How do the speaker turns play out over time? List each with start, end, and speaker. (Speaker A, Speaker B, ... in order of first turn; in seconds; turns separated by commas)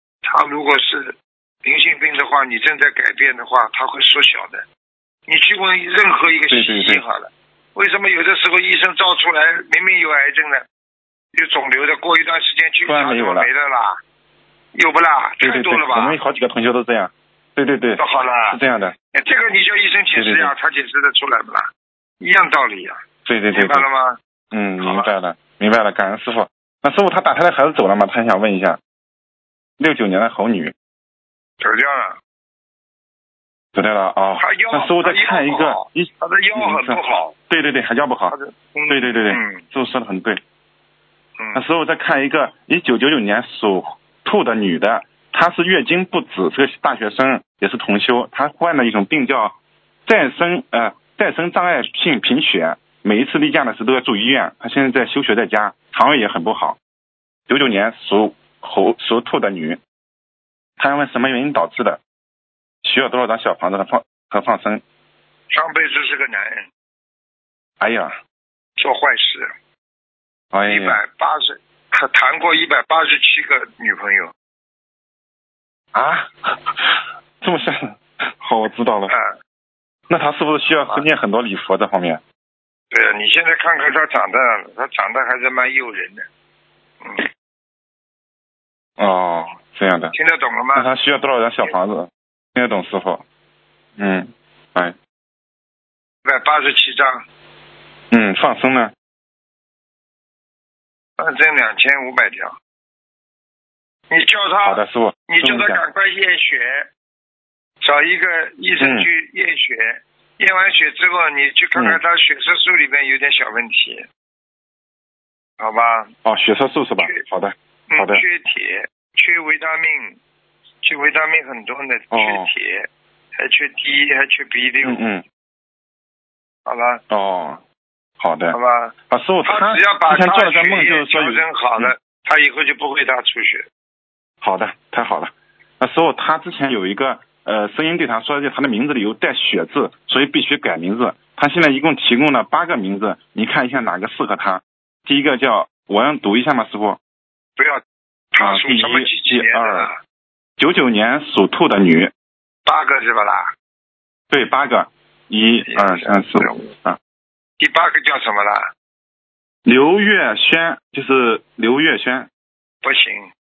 Speaker A: 0.2-4.6, Speaker A: 5.3-10.6, Speaker B: 6.5-7.0, Speaker A: 11.3-14.0, Speaker B: 12.8-13.5, Speaker A: 14.7-16.2, Speaker B: 15.4-18.9, Speaker A: 18.0-18.6, Speaker A: 19.1-21.7, Speaker B: 20.1-20.5, Speaker A: 22.2-23.0, Speaker B: 23.2-23.9, Speaker A: 23.5-24.2, Speaker B: 24.5-28.8, Speaker A: 24.8-25.1, Speaker B: 29.8-30.7, Speaker A: 31.6-32.2, Speaker B: 33.7-38.3, Speaker A: 34.4-37.3, Speaker A: 38.3-39.6, Speaker B: 38.9-40.4, Speaker B: 41.5-56.8, Speaker B: 57.5-59.8, Speaker B: 60.8-62.0, Speaker B: 62.8-64.8, Speaker A: 65.5-66.7, Speaker B: 67.8-68.2, Speaker A: 68.8-69.5, Speaker B: 70.5-71.0, Speaker A: 70.7-74.3, Speaker B: 75.9-79.1, Speaker A: 79.1-79.3, Speaker B: 80.1-82.2, Speaker A: 82.9-86.2, Speaker A: 87.0-87.3, Speaker B: 89.0-90.1, Speaker A: 90.1-90.9, Speaker B: 90.8-93.2, Speaker B: 94.0-94.9, Speaker A: 96.2-97.2, Speaker B: 98.1-98.9, Speaker A: 101.2-102.5, Speaker A: 104.1-106.9, Speaker B: 104.6-105.8, Speaker A: 107.8-114.1, Speaker B: 108.8-109.1, Speaker B: 111.7-112.0, Speaker A: 115.6-116.1, Speaker B: 116.2-118.2, Speaker A: 117.9-120.2, Speaker A: 120.8-122.9, Speaker B: 122.1-122.5, Speaker A: 123.4-125.0, Speaker B: 124.8-125.2, Speaker A: 126.7-127.0, Speaker B: 127.1-127.6, Speaker B: 128.2-128.6, Speaker A: 128.5-128.9, Speaker B: 129.1-131.9, Speaker A: 129.4-133.6, Speaker B: 134.4-147.0, Speaker A: 148.3-150.0, Speaker B: 148.4-149.9, Speaker B: 150.6-152.1, Speaker A: 152.7-153.5, Speaker B: 154.3-157.0, Speaker A: 155.7-156.7, Speaker A: 157.6-158.7, Speaker B: 159.7-162.3, Speaker A: 162.8-163.3